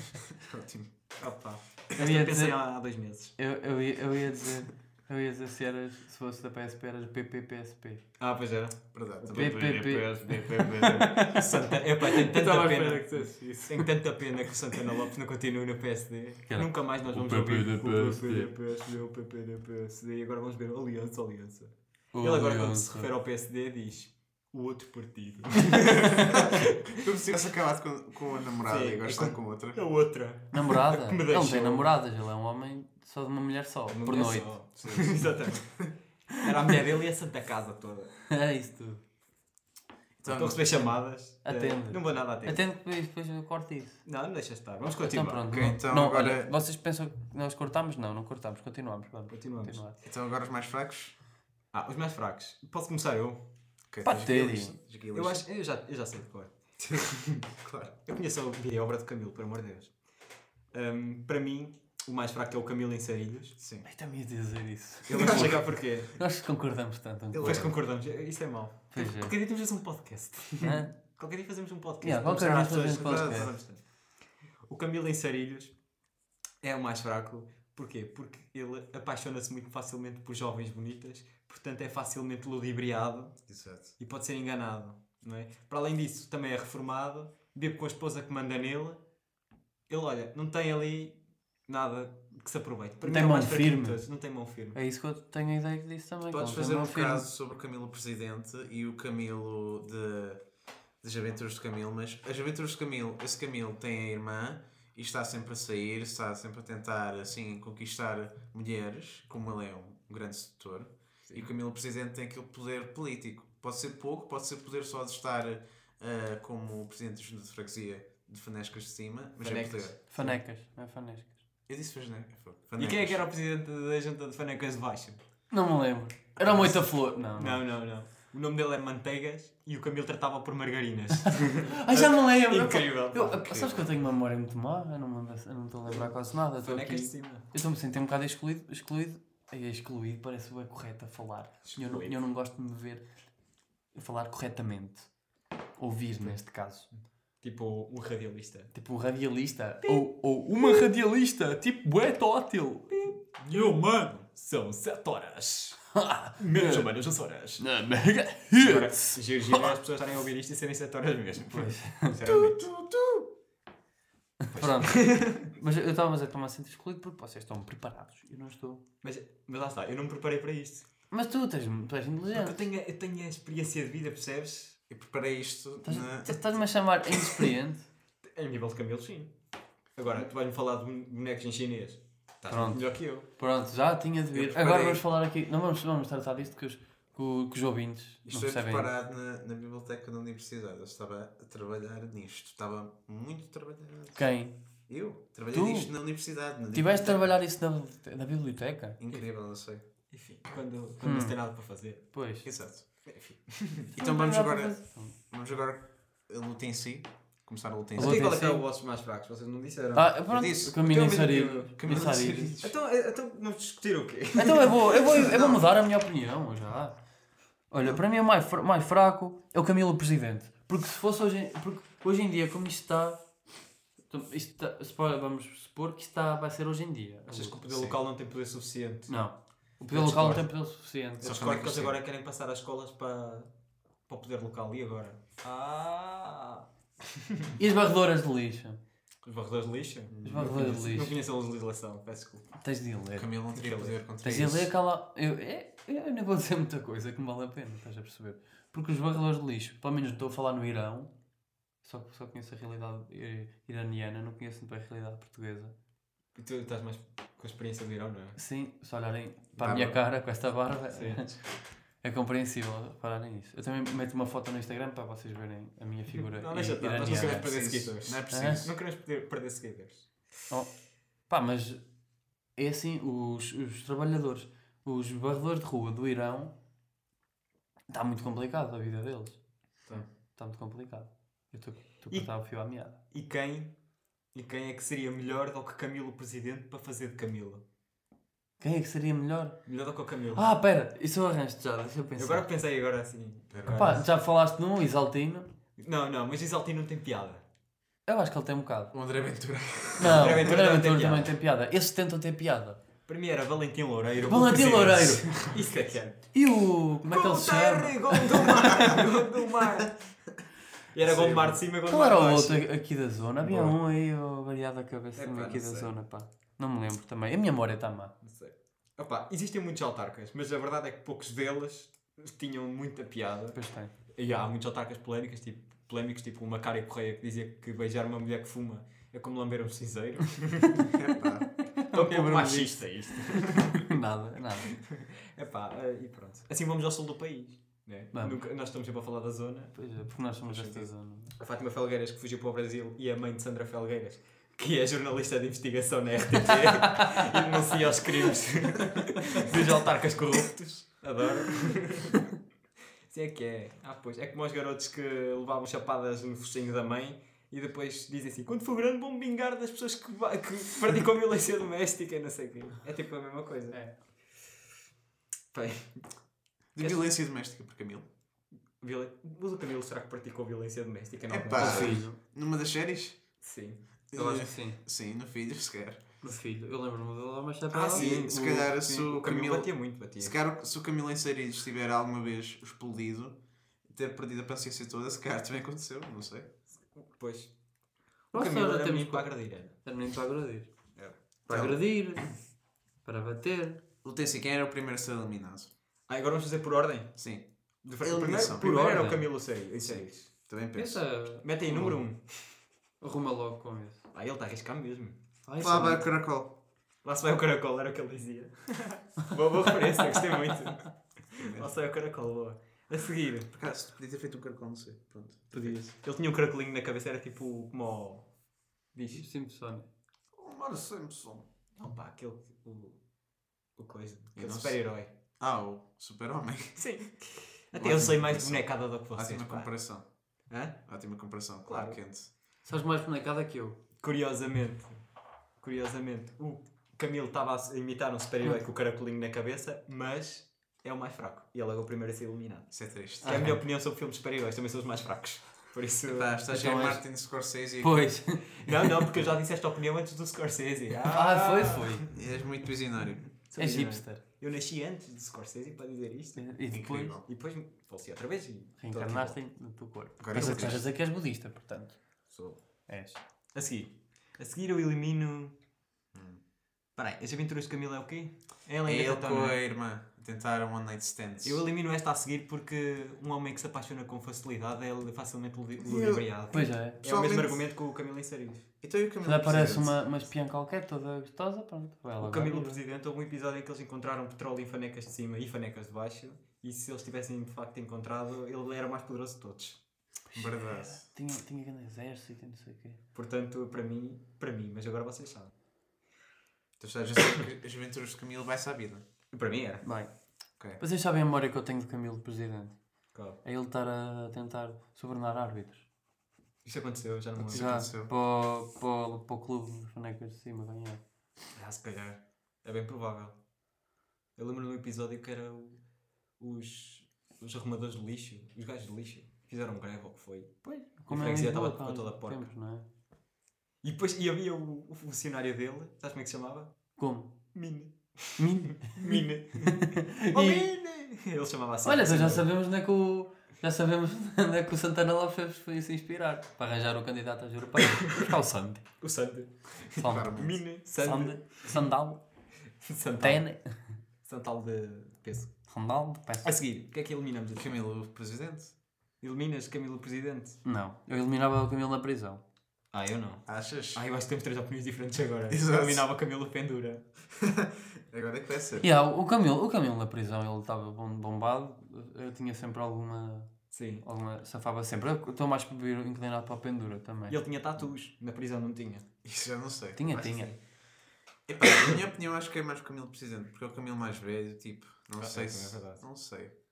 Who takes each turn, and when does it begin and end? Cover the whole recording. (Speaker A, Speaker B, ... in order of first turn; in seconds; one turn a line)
Speaker A: 0.4-0.9
Speaker B: 1.2-3.4
Speaker C: 2.0-2.6
Speaker C: 3.4-8.0
Speaker B: 8.2-27.0
Speaker A: 8.9-9.9
Speaker C: 9.3-13.9
Speaker C: 16.5-18.5
Speaker C: 22.1-23.1
Speaker A: 26.9-29.8
Speaker B: 28.6-31.9
Speaker C: 30.5-34.5
Speaker B: 33.9-38.1
Speaker A: 34.8-35.3
Speaker C: 38.3-39.0
Speaker A: 40.2-40.9
Speaker B: 40.2-42.6
Speaker C: 41.4-44.0
Speaker B: 44.0-45.5
Speaker C: 44.8-50.0
Speaker A: 45.5-46.5
Speaker B: 49.3-49.8
Speaker A: 50.0-51.1
Speaker B: 51.7-53.4
Speaker A: 53.9-55.4
Speaker C: 54.0-54.8
Speaker B: 55.1-57.5
Speaker A: 57.6-57.9
Speaker B: 58.0-59.9
Speaker B: 60.7-63.6
Speaker A: 63.6-63.9
Speaker C: 63.8-65.6
Speaker B: 65.1-66.2
Speaker A: 65.1-65.7
Speaker C: 66.1-67.7
Speaker A: 67.3-67.7
Speaker B: 67.4-73.8
Speaker C: 68.9-69.3
Speaker C: 70.6-70.9
Speaker C: 72.0-73.5
Speaker A: 72.9-73.6
Speaker B: 74.7-75.7
Speaker B: 76.6-83.4
Speaker A: 83.5-83.9
Speaker B: 84.0-89.0
Speaker B: 89.9-94.8
Speaker C: 93.0-94.0
Speaker C: 94.7-97.2
Speaker A: 96.3-100.4
Speaker A: 101.0-119.9
Speaker B: 119.4-120.4
Speaker C: 120.1-121.4
Speaker A: 121.7-123.2
Speaker B: 122.8-125.2
Speaker C: 125.5-127.6
Speaker A: 126.4-126.7
Speaker B: 127.3-133.8
Speaker C: 131.3-143.0
Speaker B: 136.6-137.4
Speaker B: 141.7-142.2
Speaker C: 143.9-145.1
Speaker C: 145.8-146.9
Speaker B: 147.4-148.7
Speaker C: 148.7-153.1
Speaker B: 152.9-157.6
Speaker A: 153.4-154.2
Speaker C: 155.9-156.9
Speaker C: 157.6-159.7
Speaker B: 158.6-162.7
Speaker C: 161.5-162.2
Speaker A: 162.2-163.3
Speaker C: 164.4-168.8
Speaker B: 164.5-165.5
Speaker B: 169.0-170.9
Speaker C: 171.1-172.6
Speaker B: 172.3-174.8
Speaker A: 174.9-176.4
Speaker C: 175.8-177.9
Speaker B: 178.2-179.3
Speaker B: 179.9-183.3
Speaker C: 182.5-188.9
Speaker A: 184.3-185.0
Speaker A: 188.3-194.3
Speaker C: 194.2-194.6
Speaker A: 194.9-197.3
Speaker C: 195.5-195.9
Speaker C: 196.7-199.0
Speaker A: 199.0-199.8
Speaker B: 200.1-202.1
Speaker C: 201.0-201.3
Speaker C: 202.1-202.5
Speaker A: 202.4-202.8
Speaker B: 203.0-203.9
Speaker C: 203.9-205.1
Speaker A: 203.9-208.2
Speaker C: 207.9-208.6
Speaker B: 208.0-211.7
Speaker C: 209.9-212.6
Speaker A: 210.3-210.8
Speaker A: 211.8-212.7
Speaker B: 212.6-215.5
Speaker C: 214.3-217.0
Speaker A: 215.3-215.6
Speaker C: 217.7-223.2
Speaker C: 224.1-227.6
Speaker B: 227.3-229.1
Speaker A: 227.7-228.0
Speaker C: 229.1-231.4
Speaker B: 229.9-230.4
Speaker B: 231.2-233.5
Speaker A: 231.2-232.0
Speaker B: 234.1-237.5
Speaker C: 237.6-238.8
Speaker B: 239.2-242.4
Speaker A: 240.2-240.5
Speaker C: 240.2-241.2
Speaker C: 242.6-243.3
Speaker A: 243.2-244.7
Speaker B: 243.5-244.0
Speaker C: 244.2-251.1
Speaker C: 251.8-255.7
Speaker B: 256.3-258.4
Speaker C: 258.4-261.4
Speaker A: 259.6-260.0
Speaker B: 260.9-261.3
Speaker C: 262.0-267.5
Speaker B: 266.3-270.1
Speaker A: 267.0-268.7
Speaker C: 268.3-268.6
Speaker C: 271.3-271.8
Speaker C: 272.6-276.5
Speaker C: 277.9-279.4
Speaker C: 279.9-283.0
Speaker B: 283.1-283.7
Speaker B: 284.3-287.6
Speaker C: 288.6-289.6
Speaker B: 289.6-290.4
Speaker C: 290.4-292.4
Speaker B: 292.2-294.0
Speaker A: 293.5-294.0
Speaker C: 293.7-295.5
Speaker B: 295.8-297.4
Speaker C: 298.1-298.9
Speaker A: 298.9-300.5
Speaker C: 300.0-302.8
Speaker B: 300.0-301.3
Speaker B: 303.1-306.3
Speaker C: 304.3-305.6
Speaker C: 306.3-309.0
Speaker B: 307.0-310.0
Speaker B: 310.9-312.6
Speaker A: 311.0-311.6
Speaker C: 311.9-318.1
Speaker B: 313.4-313.7
Speaker B: 315.1-315.9
Speaker B: 318.2-323.6
Speaker C: 323.5-323.9
Speaker B: 324.1-330.9
Speaker A: 330.9-331.5
Speaker C: 331.7-334.8
Speaker B: 331.9-333.8
Speaker B: 334.7-339.8
Speaker C: 339.7-341.3
Speaker B: 340.5-352.3
Speaker C: 346.8-347.5
Speaker C: 348.9-350.5
Speaker B: 353.1-363.8
Speaker C: 363.7-364.0
Speaker B: 365.5-366.1
Speaker A: 366.8-368.1
Speaker B: 366.8-367.1
Speaker B: 368.8-372.0
Speaker A: 371.3-373.2
Speaker C: 371.5-372.2
Speaker B: 373.4-373.8
Speaker A: 374.1-376.1
Speaker C: 374.1-374.8
Speaker C: 376.2-378.1
Speaker B: 377.7-380.4
Speaker A: 377.9-386.5
Speaker B: 386.9-387.5
Speaker B: 388.3-389.7
Speaker C: 388.3-390.7
Speaker A: 391.5-391.8
Speaker C: 391.5-392.3
Speaker C: 393.0-393.8
Speaker A: 394.0-395.7
Speaker B: 396.1-397.1
Speaker A: 397.2-397.4
Speaker B: 397.8-400.3
Speaker A: 398.0-398.9
Speaker C: 398.6-399.3
Speaker A: 399.8-401.0
Speaker C: 400.7-402.0
Speaker B: 401.4-402.6
Speaker C: 403.0-404.0
Speaker B: 404.1-405.2
Speaker C: 405.4-406.1
Speaker A: 405.6-406.6
Speaker B: 407.0-413.5
Speaker A: 411.4-411.7
Speaker A: 413.5-415.9
Speaker B: 415.6-418.3
Speaker C: 415.6-415.9
Speaker B: 418.9-419.2
Speaker C: 419.1-419.9
Speaker A: 420.3-421.5
Speaker B: 421.8-423.0
Speaker B: 423.8-425.1
Speaker A: 424.4-424.8
Speaker A: 425.4-426.9
Speaker B: 426.8-429.7
Speaker A: 427.8-430.1
Speaker B: 430.5-430.8
Speaker A: 430.9-432.3
Speaker B: 431.7-432.0
Speaker C: 432.6-433.8
Speaker B: 434.0-434.9
Speaker B: 435.6-446.3
Speaker A: 442.7-443.4
Speaker C: 443.2-443.6
Speaker A: 446.1-448.2
Speaker C: 446.5-447.0
Speaker C: 447.8-449.1
Speaker B: 448.6-452.1
Speaker C: 451.1-452.1
Speaker A: 452.1-453.3
Speaker B: 453.5-456.5
Speaker C: 453.6-454.2
Speaker C: 456.4-457.2
Speaker A: 456.7-457.2
Speaker B: 457.2-459.4
Speaker C: 458.8-462.0
Speaker A: 460.2-460.9
Speaker B: 460.3-460.8
Speaker B: 462.3-462.6
Speaker C: 462.9-463.2
Speaker B: 463.5-465.5
Speaker A: 466.1-466.4
Speaker B: 466.9-469.6
Speaker A: 468.8-471.6
Speaker B: 471.4-478.7
Speaker A: 475.8-477.6
Speaker C: 476.5-477.0
Speaker A: 478.8-480.1
Speaker C: 479.2-482.8
Speaker B: 482.2-489.8
Speaker A: 490.3-491.0
Speaker C: 490.3-493.0
Speaker B: 493.1-495.5
Speaker A: 496.8-499.0
Speaker B: 499.3-499.8
Speaker C: 499.8-500.1
Speaker C: 500.8-502.8
Speaker C: 503.4-505.9
Speaker B: 506.6-507.8
Speaker A: 507.4-508.1
Speaker C: 507.5-511.0
Speaker B: 511.5-513.4
Speaker B: 514.4-515.8
Speaker B: 516.4-520.5
Speaker C: 520.6-522.8
Speaker B: 521.1-522.5
Speaker B: 523.8-526.7
Speaker C: 527.0-527.3
Speaker B: 527.5-532.5
Speaker C: 528.4-530.7
Speaker C: 531.8-538.8
Speaker B: 538.0-538.2
Speaker B: 539.0-541.8
Speaker C: 540.0-540.3
Speaker A: 540.0-540.6
Speaker C: 541.0-542.2
Speaker B: 542.8-543.4
Speaker C: 543.2-543.8
Speaker B: 544.2-545.5
Speaker C: 545.7-546.5
Speaker B: 546.4-547.7
Speaker A: 547.5-548.7
Speaker B: 549.2-550.6
Speaker C: 550.6-552.4
Speaker B: 552.9-557.0
Speaker A: 553.5-554.0
Speaker A: 555.5-556.0
Speaker A: 557.4-558.9
Speaker C: 558.8-563.5
Speaker B: 563.7-564.0
Speaker C: 564.0-567.4
Speaker B: 567.3-569.2
Speaker A: 569.2-570.0
Speaker C: 570.0-570.5
Speaker B: 570.1-570.5
Speaker A: 571.5-576.5
Speaker B: 571.6-571.9
Speaker B: 575.2-576.0